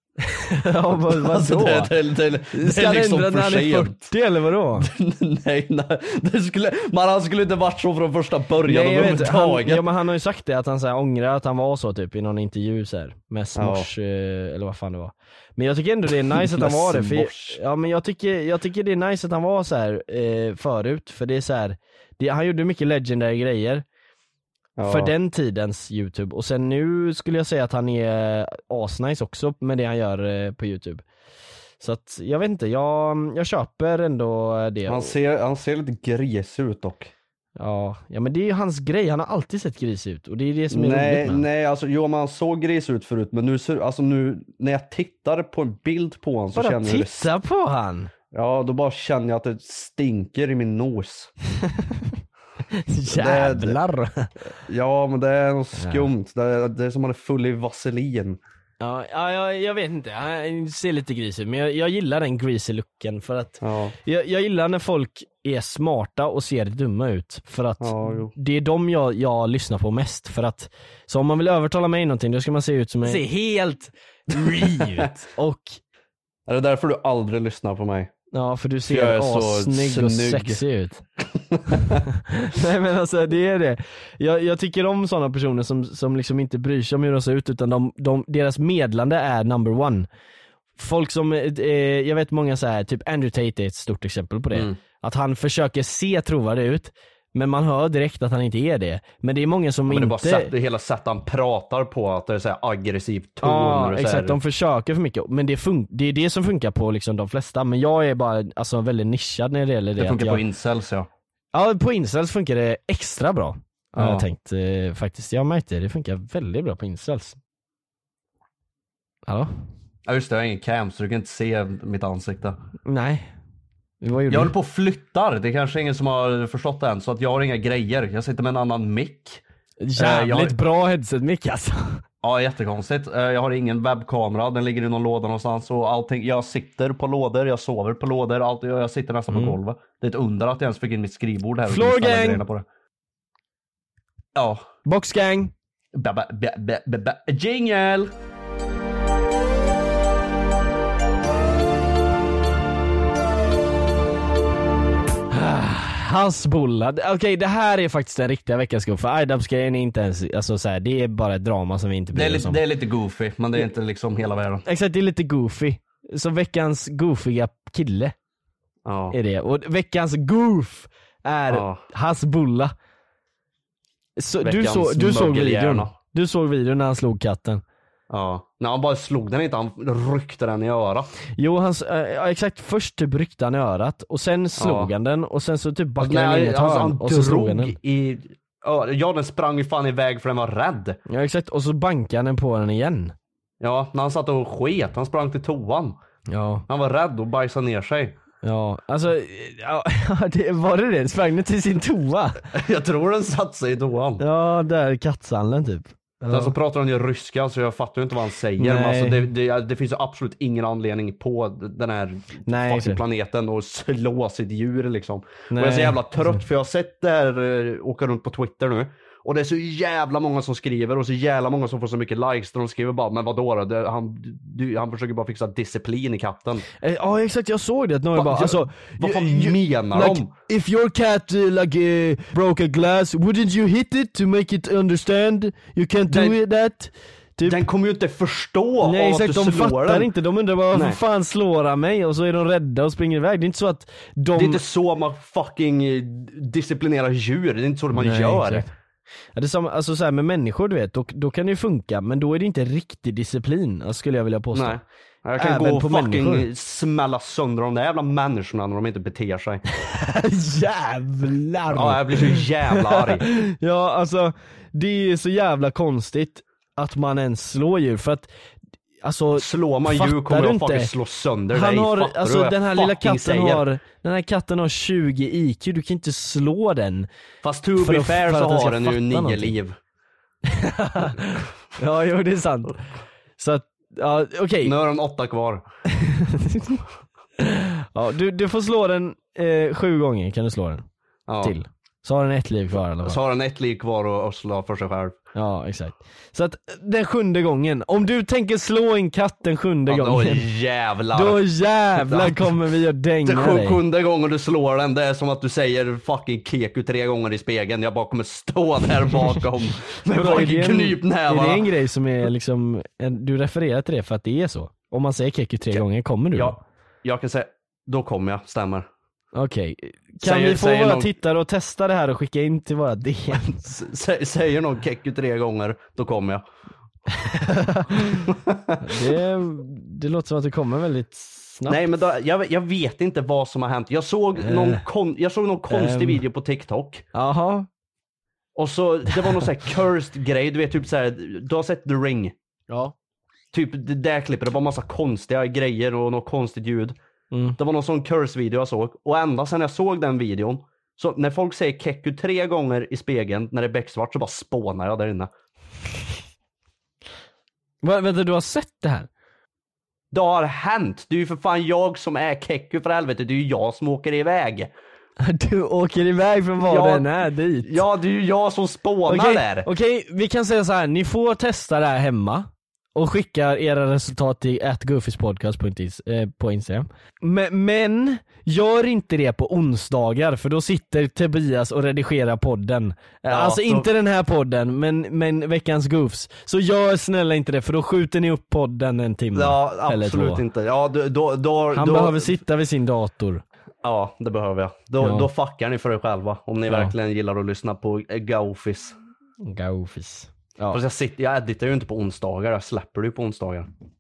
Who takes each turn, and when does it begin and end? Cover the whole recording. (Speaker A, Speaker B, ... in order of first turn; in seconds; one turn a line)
Speaker A: 0.3-1.9
Speaker B: 0.9-4.1
Speaker A: 2.5-4.9
Speaker B: 4.8-9.9
Speaker A: 8.7-23.8
Speaker B: 13.6-13.9
Speaker B: 16.3-17.6
Speaker B: 24.8-25.1
Speaker A: 24.8-31.0
Speaker A: 31.8-35.1
Speaker B: 34.9-37.1
Speaker A: 37.6-41.5
Speaker B: 40.7-47.3
Speaker A: 46.5-48.1
Speaker B: 48.3-51.3
Speaker A: 51.8-52.1
Speaker A: 52.9-54.3
Speaker B: 53.1-53.8
Speaker B: 54.6-58.4
Speaker A: 55.8-56.1
Speaker A: 58.8-75.8
Speaker B: 63.6-64.0
Speaker B: 67.8-68.3
Speaker B: 74.3-75.1
Speaker B: 76.5-78.1
Speaker A: 78.3-81.0
Speaker B: 78.9-80.6
Speaker B: 81.5-82.0
Speaker A: 82.1-90.1
Speaker A: 90.8-100.5
Speaker B: 99.9-104.4
Speaker A: 103.4-110.4
Speaker B: 110.0-111.1
Speaker A: 111.5-117.4
Speaker B: 114.0-114.3
Speaker B: 120.1-122.6
Speaker A: 122.9-123.3
Speaker A: 124.0-124.5
Speaker B: 124.3-129.4
Speaker A: 129.8-132.0
Speaker B: 130.0-130.6
Speaker B: 132.2-142.7
Speaker A: 139.3-139.6
Speaker A: 141.7-142.4
Speaker B: 144.3-144.7
Speaker A: 144.8-145.5
Speaker B: 145.9-148.1
Speaker A: 155.3-162.6
Speaker B: 162.1-164.6
Speaker A: 164.7-168.1
Speaker B: 168.9-169.2
Speaker A: 169.1-172.7
Speaker B: 171.5-171.8
Speaker A: 174.2-177.6
Speaker B: 174.4-175.9
Speaker B: 178.1-181.1
Speaker A: 181.4-187.8
Speaker B: 184.6-184.9
Speaker B: 186.0-191.0
Speaker A: 191.1-193.1
Speaker B: 193.6-196.0
Speaker A: 196.3-196.7
Speaker B: 196.7-198.2
Speaker A: 198.4-202.4
Speaker B: 202.5-204.2
Speaker A: 204.2-206.5
Speaker B: 206.3-226.7
Speaker A: 208.6-209.3
Speaker A: 212.5-213.0
Speaker A: 215.5-216.4
Speaker A: 226.8-237.6
Speaker B: 228.2-230.3
Speaker B: 236.1-236.4
Speaker B: 237.4-240.1
Speaker A: 238.8-244.6
Speaker B: 240.7-241.0
Speaker B: 244.3-248.7
Speaker A: 247.9-248.7
Speaker A: 249.4-254.8
Speaker B: 254.5-259.6
Speaker A: 255.4-256.5
Speaker A: 259.8-268.3
Speaker B: 261.7-263.3
Speaker A: 269.0-270.9
Speaker B: 269.4-273.6
Speaker A: 271.5-277.1
Speaker B: 277.4-279.8
Speaker A: 277.8-279.5
Speaker A: 280.5-282.8
Speaker A: 283.4-284.8
Speaker B: 284.6-285.6
Speaker A: 285.9-286.8
Speaker A: 287.4-290.9
Speaker B: 291.3-291.6
Speaker A: 291.4-293.2
Speaker B: 293.0-295.2
Speaker A: 295.4-300.5
Speaker B: 299.9-301.4
Speaker A: 301.1-303.8
Speaker B: 301.9-302.5
Speaker B: 303.2-311.7
Speaker A: 310.1-316.6
Speaker B: 316.4-318.9
Speaker A: 319.4-323.6
Speaker B: 320.2-321.1
Speaker B: 323.3-326.4
Speaker A: 327.2-328.3
Speaker B: 328.1-328.8
Speaker A: 328.8-331.9
Speaker B: 331.7-337.1
Speaker A: 334.4-334.8
Speaker A: 335.7-336.2
Speaker A: 337.1-337.7
Speaker B: 338.6-342.3
Speaker A: 342.7-342.9
Speaker B: 343.5-347.0
Speaker A: 347.3-347.6
Speaker B: 347.6-355.3
Speaker A: 357.8-359.1
Speaker B: 360.1-364.7
Speaker A: 365.2-367.8
Speaker B: 366.6-367.1
Speaker B: 367.6-369.7
Speaker A: 369.1-390.4
Speaker B: 383.3-383.9
Speaker B: 389.4-392.4
Speaker A: 391.7-393.4
Speaker B: 393.8-399.0
Speaker A: 395.0-395.3
Speaker A: 396.7-396.9
Speaker A: 399.4-400.8
Speaker B: 400.7-403.7